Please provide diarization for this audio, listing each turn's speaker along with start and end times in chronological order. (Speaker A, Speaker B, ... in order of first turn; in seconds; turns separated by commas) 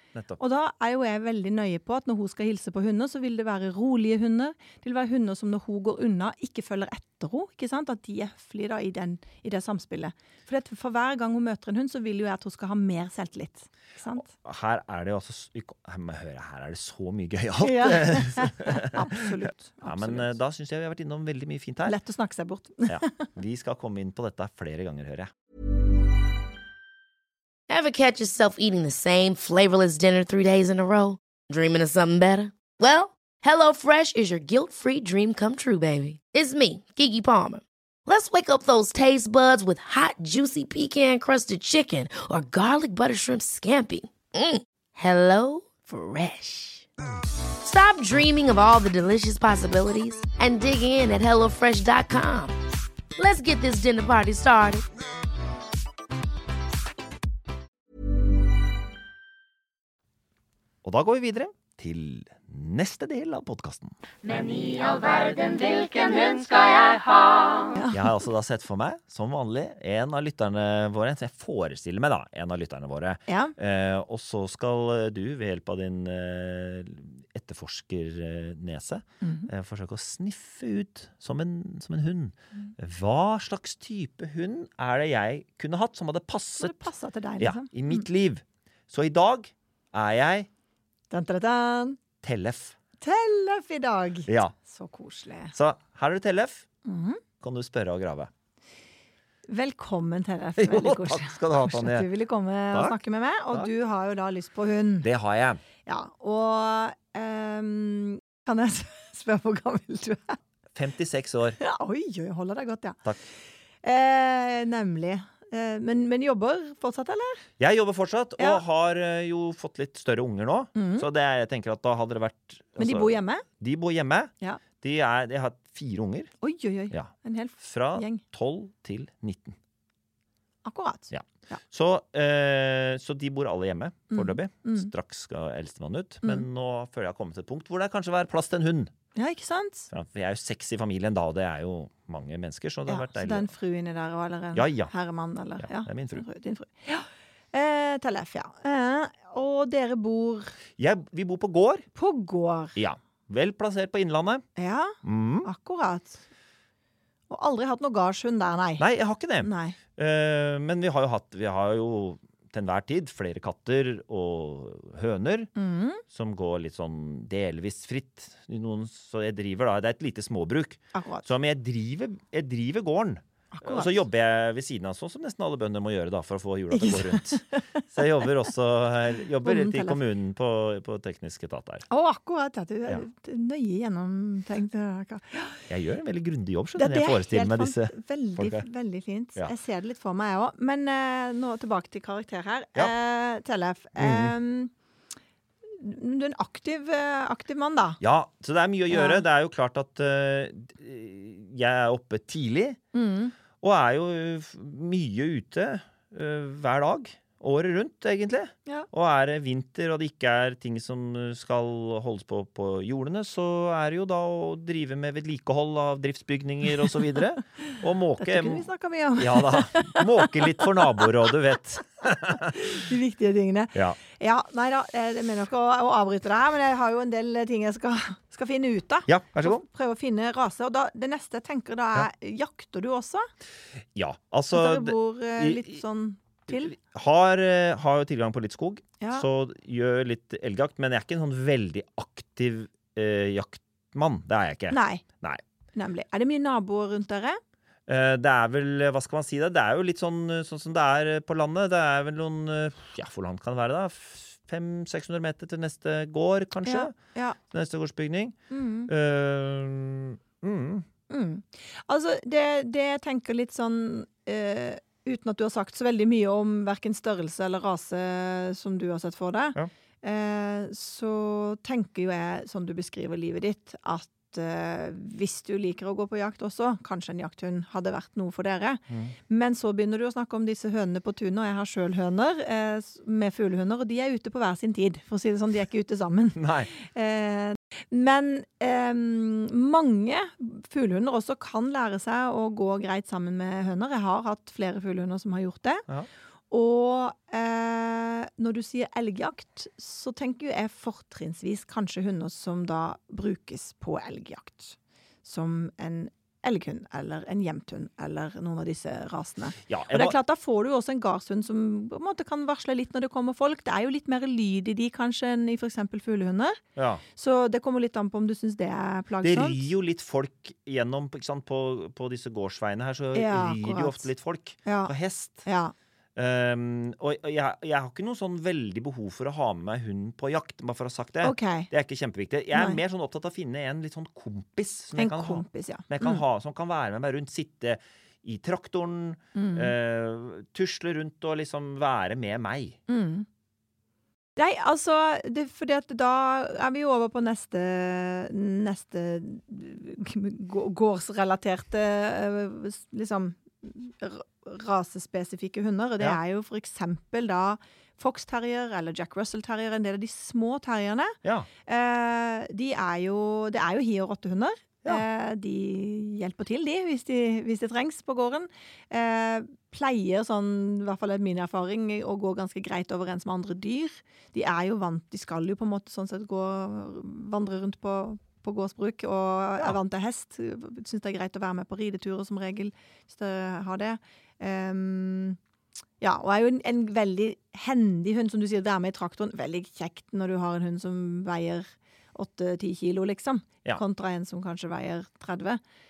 Speaker A: 0.1-0.4, Speaker B: 0.4-14.3, Speaker A: 14.2-22.0, Speaker B: 17.6-20.3, Speaker B: 21.9-23.3, Speaker A: 22.9-25.3, Speaker C: 27.7-46.9, Speaker C: 47.6-52.5, Speaker C: 53.1-54.9, Speaker A: 60.8-64.0, Speaker C: 65.5-66.3, Speaker B: 67.7-68.1, Speaker A: 67.9-86.9, Speaker B: 73.3-73.5, Speaker B: 79.2-79.5, Speaker B: 86.6-88.0, Speaker A: 87.4-90.5, Speaker B: 91.1-92.0, Speaker A: 92.2-92.8, Speaker B: 93.0-95.5, Speaker A: 94.3-94.5, Speaker A: 95.5-96.6, Speaker B: 96.8-97.2, Speaker A: 97.4-98.3, Speaker B: 99.5-105.1, Speaker A: 100.6-102.1, Speaker A: 102.7-103.0, Speaker A: 105.0-105.6, Speaker B: 105.8-110.4, Speaker A: 110.7-111.6, Speaker B: 111.6-113.0, Speaker B: 113.8-117.4, Speaker A: 117.6-126.3, Speaker B: 120.7-121.0, Speaker B: 122.8-123.4, Speaker B: 126.4-128.2, Speaker A: 127.6-129.6, Speaker B: 130.6-131.5, Speaker A: 131.1-138.9, Speaker B: 134.1-134.9, Speaker B: 139.1-139.9, Speaker A: 139.9-143.5, Speaker B: 142.9-150.5, Speaker A: 144.6-144.9, Speaker A: 145.6-146.2, Speaker A: 150.8-151.9, Speaker B: 151.9-152.8, Speaker A: 152.8-154.5, Speaker B: 154.6-156.2, Speaker A: 155.0-155.5, Speaker B: 157.3-158.8, Speaker A: 158.8-165.5, Speaker B: 159.4-159.8, Speaker B: 165.6-166.0, Speaker A: 166.1-181.9, Speaker B: 170.9-171.2, Speaker B: 173.5-173.9, Speaker B: 176.7-178.2, Speaker B: 179.4-180.0, Speaker B: 181.9-185.7, Speaker A: 185.7-188.7, Speaker B: 186.8-194.7, Speaker A: 194.0-194.3, Speaker B: 195.7-198.0, Speaker A: 198.0-202.8, Speaker B: 198.9-199.2, Speaker B: 202.9-203.3, Speaker A: 203.6-218.7, Speaker B: 218.2-221.1, Speaker A: 219.2-222.6, Speaker B: 222.3-233.3, Speaker A: 229.1-229.6, Speaker A: 233.9-235.8, Speaker B: 234.5-236.7, Speaker A: 236.5-245.4, Speaker B: 239.0-239.3, Speaker B: 244.7-245.0, Speaker B: 245.8-247.4, Speaker A: 247.9-256.9, Speaker B: 256.6-257.4, Speaker A: 257.5-260.9, Speaker B: 258.5-258.9, Speaker B: 261.1-295.8, Speaker A: 278.9-279.1, Speaker A: 286.4-286.7, Speaker B: 296.5-316.6, Speaker A: 309.7-310.1, Speaker A: 316.8-317.0, Speaker B: 317.1-319.6, Speaker A: 319.2-325.4, Speaker B: 323.1-324.1, Speaker B: 324.6-324.9, Speaker B: 325.4-325.7, Speaker A: 326.1-342.8, Speaker B: 331.2-331.7, Speaker B: 332.5-332.8, Speaker B: 334.9-336.2, Speaker B: 339.3-339.7, Speaker B: 342.9-343.3, Speaker B: 344.4-385.4, Speaker B: 386.0-395.6